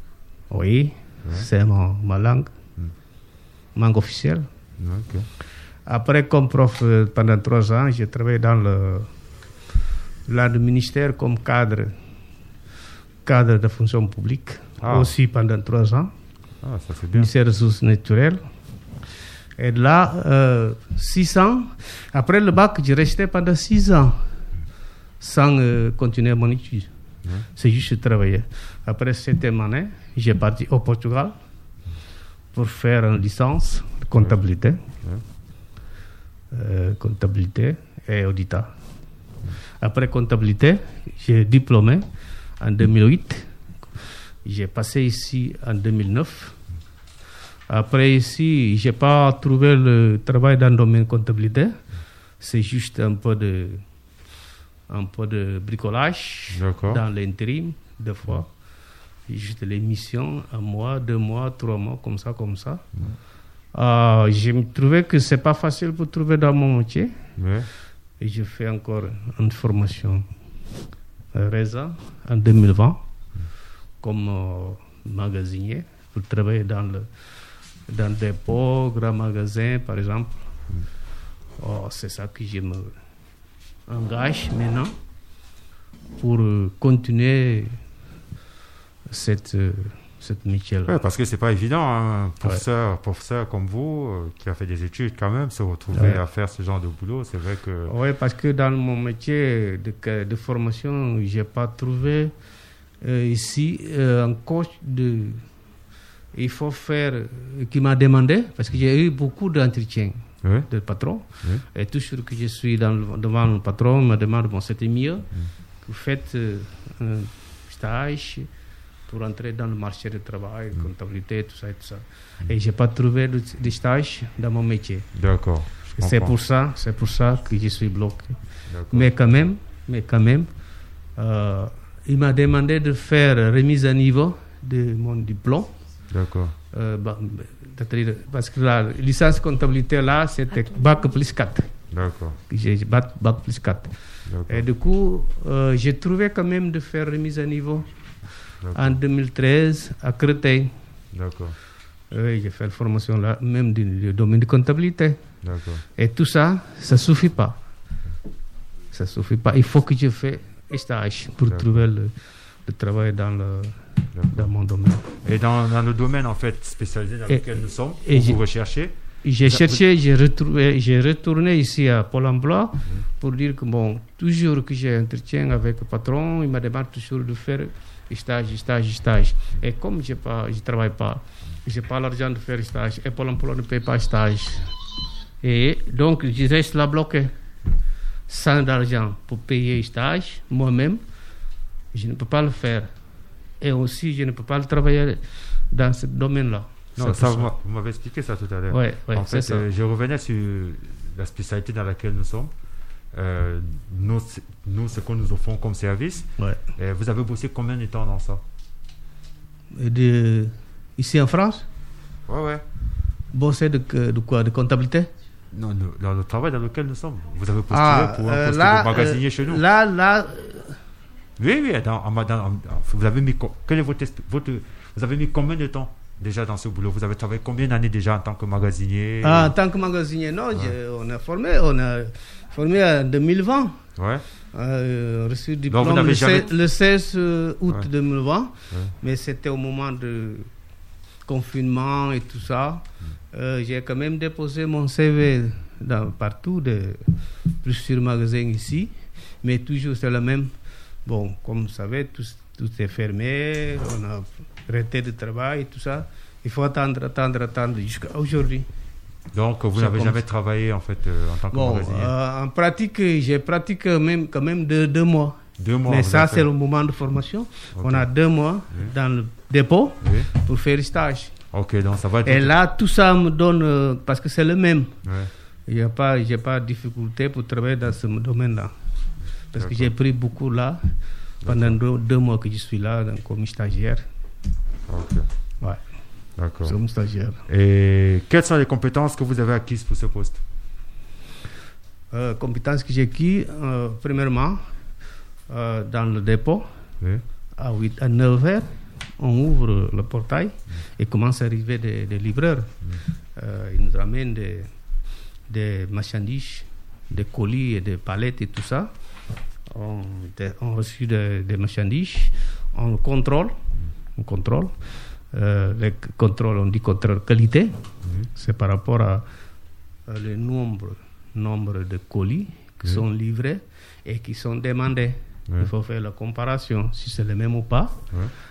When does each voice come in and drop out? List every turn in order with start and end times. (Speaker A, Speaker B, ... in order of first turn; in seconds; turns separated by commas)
Speaker A: 0.5-2.5, Speaker A: 3.7-4.5, Speaker B: 4.8-5.3, Speaker A: 5.8-9.1, Speaker A: 10.3-12.0, Speaker A: 13.2-16.1, Speaker B: 14.8-15.1, Speaker B: 16.6-17.3, Speaker A: 17.1-18.5, Speaker A: 19.6-24.2, Speaker A: 25.2-26.9, Speaker A: 27.5-31.4, Speaker A: 32.5-34.8, Speaker B: 34.1-34.4, Speaker A: 36.5-38.7, Speaker A: 39.8-42.1, Speaker A: 42.6-43.5, Speaker A: 44.4-46.5, Speaker A: 47.7-51.8, Speaker A: 52.4-53.8, Speaker A: 54.9-58.5, Speaker B: 56.5-57.0, Speaker A: 59.3-62.8, Speaker A: 63.7-67.2, Speaker B: 67.4-67.7, Speaker A: 68.2-70.3, Speaker A: 71.3-73.0, Speaker A: 74.0-77.1, Speaker A: 77.9-80.3, Speaker A: 81.6-82.9, Speaker A: 83.9-84.9, Speaker A: 86.2-87.8, Speaker A: 89.1-91.0, Speaker B: 90.8-97.9, Speaker A: 95.9-96.2, Speaker A: 97.9-102.3, Speaker A: 103.0-105.5, Speaker A: 106.3-115.3, Speaker B: 110.4-110.7, Speaker A: 115.8-118.5, Speaker A: 119.1-125.1, Speaker B: 125.1-126.3, Speaker A: 126.0-130.6, Speaker B: 128.7-129.3, Speaker A: 131.1-135.7, Speaker B: 136.1-136.6, Speaker A: 136.7-141.7, Speaker B: 141.9-142.4, Speaker A: 142.5-143.9, Speaker B: 144.3-144.7, Speaker A: 144.5-147.9, Speaker B: 148.6-149.0, Speaker A: 148.7-150.7, Speaker B: 151.1-151.6, Speaker A: 152.1-155.2, Speaker B: 155.4-155.8, Speaker A: 156.0-157.6, Speaker A: 158.9-165.1, Speaker B: 161.5-161.9, Speaker B: 164.1-164.5, Speaker B: 165.2-169.8, Speaker A: 167.3-168.4, Speaker A: 169.2-184.7, Speaker A: 185.4-187.3, Speaker A: 188.3-191.0, Speaker A: 191.9-192.9, Speaker A: 193.6-197.5, Speaker B: 197.0-202.5, Speaker A: 198.7-199.6, Speaker B: 203.1-208.4, Speaker A: 209.7-211.7, Speaker B: 212.3-212.6, Speaker A: 213.3-215.1, Speaker B: 215.5-219.6, Speaker A: 217.7-220.8, Speaker B: 221.4-229.6, Speaker A: 229.2-233.8, Speaker B: 234.0-234.2, Speaker A: 234.5-240.5, Speaker B: 235.7-236.5, Speaker A: 241.2-258.7, Speaker B: 259.3-262.1, Speaker A: 259.8-260.2, Speaker A: 261.5-271.4, Speaker B: 265.6-266.5, Speaker B: 267.7-268.1, Speaker B: 270.0-270.3, Speaker B: 271.5-272.5, Speaker A: 272.2-275.0, Speaker B: 275.0-275.3, Speaker A: 275.7-278.7, Speaker A: 279.5-280.9, Speaker B: 279.5-279.9, Speaker A: 281.4-284.1, Speaker B: 281.4-281.8, Speaker B: 284.9-285.3, Speaker B: 286.4-286.8, Speaker A: 286.6-287.4, Speaker B: 287.5-290.4, Speaker A: 292.1-294.7, Speaker A: 295.5-296.7, Speaker A: 297.6-302.7, Speaker A: 303.3-304.7, Speaker A: 305.5-308.9, Speaker A: 309.7-313.6, Speaker A: 314.1-317.8, Speaker A: 318.3-319.2, Speaker A: 320.1-328.0